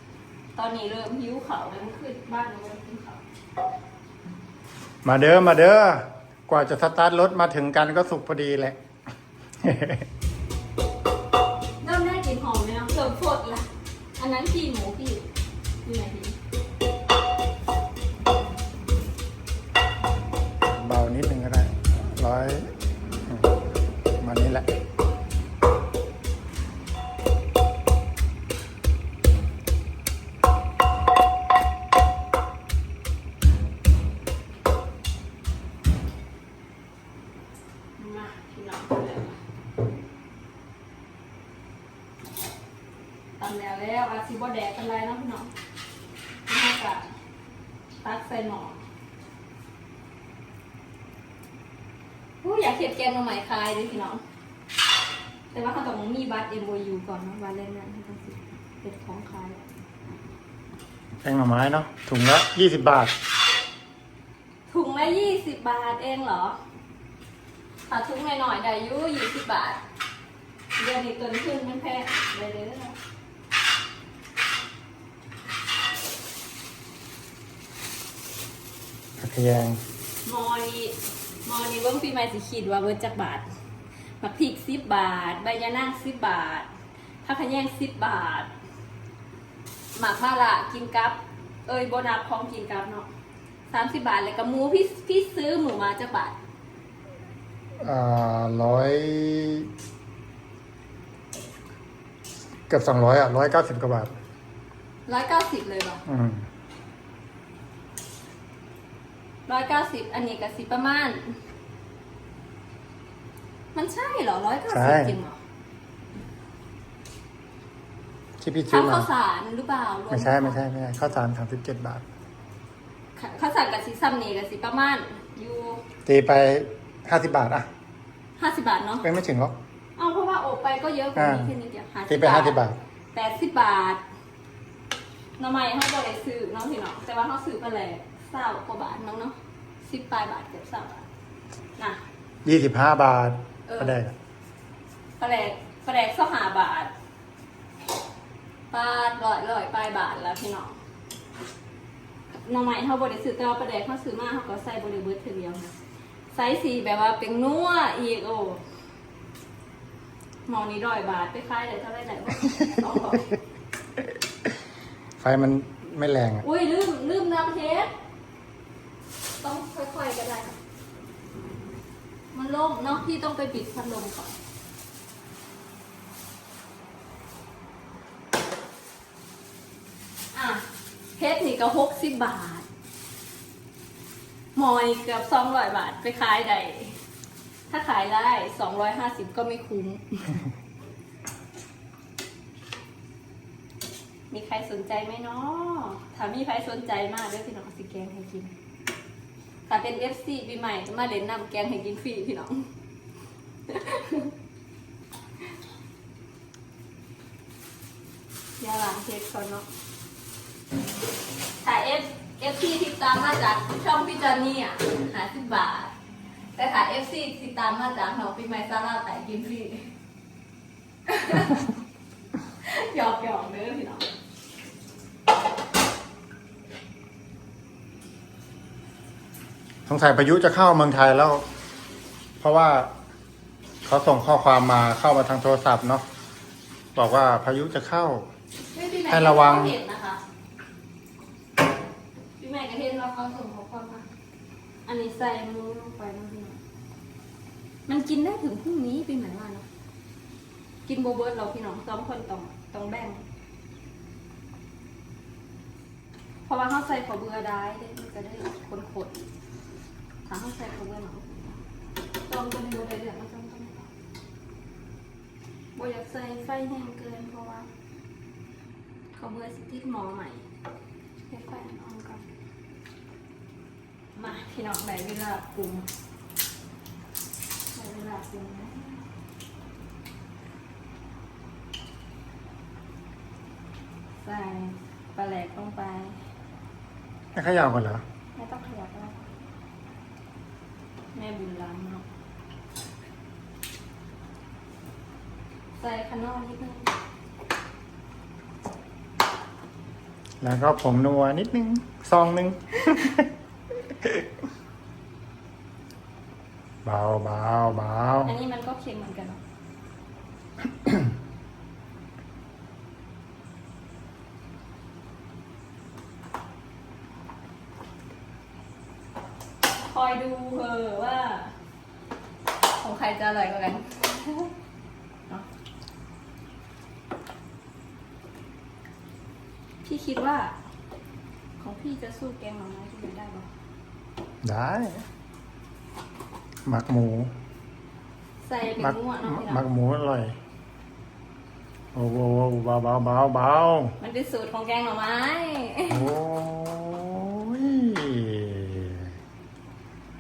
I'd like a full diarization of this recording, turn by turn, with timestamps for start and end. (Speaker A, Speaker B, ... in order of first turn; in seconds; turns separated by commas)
Speaker A: 0.6-3.2, Speaker B: 5.0-8.8, Speaker B: 9.6-10.1, Speaker A: 11.8-13.7, Speaker A: 14.2-15.3, Speaker A: 15.8-16.4, Speaker B: 20.7-22.7, Speaker B: 24.2-24.7, Speaker A: 38.0-39.4, Speaker A: 43.4-45.5, Speaker A: 46.5-47.1, Speaker A: 48.0-48.8, Speaker A: 52.4-54.2, Speaker A: 55.5-59.7, Speaker B: 61.2-63.1, Speaker A: 64.7-66.6, Speaker A: 67.9-69.8, Speaker A: 70.8-73.0, Speaker B: 79.2-79.8, Speaker A: 80.2-83.5, Speaker A: 84.2-86.7, Speaker A: 87.2-88.5, Speaker A: 90.0-93.1, Speaker A: 93.7-96.4, Speaker B: 97.8-99.7, Speaker B: 102.7-104.2, Speaker A: 105.1-106.0, Speaker B: 106.1-106.5, Speaker A: 109.5-111.4, Speaker A: 113.7-115.4, Speaker B: 114.7-115.2, Speaker B: 118.4-119.1, Speaker A: 118.7-120.6, Speaker B: 120.1-122.0, Speaker A: 123.2-125.8, Speaker B: 126.1-127.7, Speaker A: 128.4-129.1, Speaker B: 129.0-129.6, Speaker A: 130.0-132.6, Speaker B: 131.2-131.5, Speaker B: 132.1-132.8, Speaker A: 133.1-134.0, Speaker A: 135.4-141.1, Speaker B: 142.4-144.2, Speaker A: 143.7-143.9, Speaker A: 145.2-146.9, Speaker A: 148.7-150.8, Speaker A: 152.4-155.8, Speaker A: 156.3-158.6, Speaker A: 160.5-163.4, Speaker B: 165.2-166.4, Speaker A: 166.4-167.9, Speaker A: 169.4-170.6, Speaker A: 172.3-174.4, Speaker A: 180.3-180.7, Speaker A: 181.2-182.7, Speaker A: 184.6-187.0, Speaker A: 187.7-190.4, Speaker A: 194.3-198.5, Speaker A: 199.7-202.7, Speaker A: 203.7-204.3, Speaker A: 208.6-209.7, Speaker A: 211.6-215.9, Speaker A: 216.6-219.9, Speaker A: 221.1-221.7, Speaker A: 222.6-224.1, Speaker B: 229.9-231.4, Speaker B: 232.4-232.9, Speaker B: 233.8-236.1, Speaker B: 236.9-238.3, Speaker A: 238.7-240.2, Speaker B: 239.1-239.8, Speaker A: 242.4-244.1, Speaker A: 244.9-246.6, Speaker A: 247.9-249.7, Speaker A: 250.9-253.2, Speaker A: 256.5-259.2, Speaker A: 260.3-261.6, Speaker A: 262.3-263.9, Speaker A: 265.8-267.7, Speaker A: 269.1-270.4, Speaker A: 271.3-272.2, Speaker A: 274.1-275.9, Speaker A: 277.7-279.1, Speaker A: 284.2-286.2, Speaker B: 287.3-288.0, Speaker A: 288.4-289.3, Speaker A: 291.1-292.1, Speaker A: 295.8-296.9, Speaker B: 300.4-303.3, Speaker B: 306.9-308.3, Speaker A: 308.2-309.4, Speaker A: 319.9-321.5, Speaker A: 322.8-324.5, Speaker A: 329.8-330.6, Speaker A: 331.6-333.5, Speaker B: 334.4-335.1, Speaker B: 336.6-337.3, Speaker A: 338.4-339.6, Speaker B: 338.8-340.4, Speaker B: 341.9-343.9, Speaker A: 344.0-346.1, Speaker B: 345.9-349.1